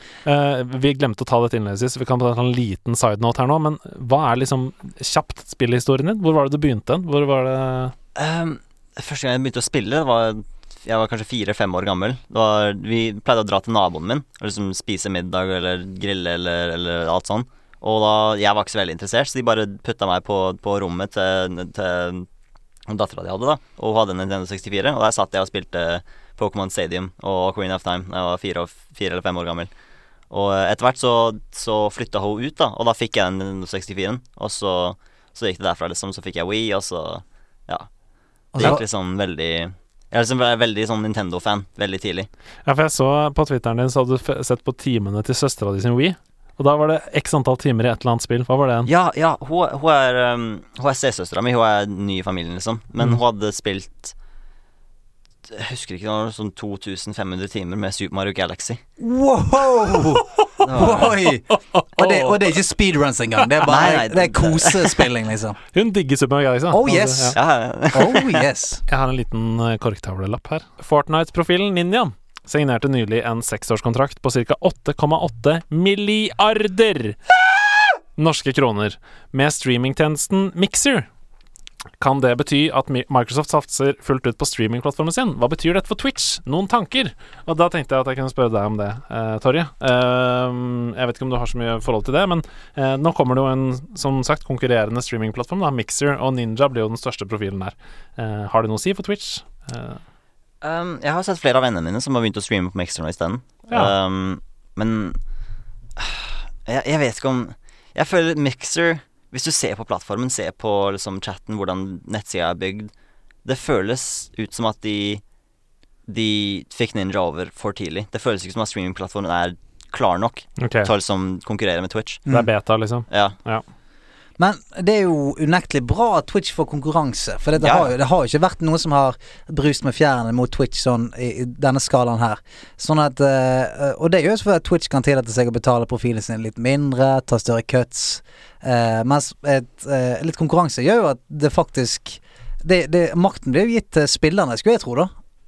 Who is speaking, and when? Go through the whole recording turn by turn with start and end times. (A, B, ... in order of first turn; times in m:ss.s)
0:00.2-0:07.9 A
0:08.2-0:22.3 B
0:22.9-0:29.7 B
0:30.3-0:37.9 B
0:38.5-0:38.8 C
0:38.6-0:42.3 B
0:42.6-0:48.9 A
0:48.9-0:54.1 B
0:55.5-0:58.8 B
0:59.0-1:05.6 C
1:00.6-1:01.1 B
1:00.9-1:02.5 A
1:03.6-1:05.0 B
1:05.7-1:07.4 A
1:06.7-1:07.4 C
1:07.3-1:08.4 B
1:07.9-1:08.8 C
1:08.9-1:17.2 A
1:18.2-1:21.1 A
1:22.0-1:40.0 A
1:40.6-1:45.2 B
1:46.0-1:52.9 B
1:53.4-1:55.2 B
1:56.1-2:02.3 B
2:00.6-2:00.9 A
2:02.3-2:03.6 A
2:03.1-2:03.4 B
2:04.4-2:25.1 C
2:07.6-2:07.9 B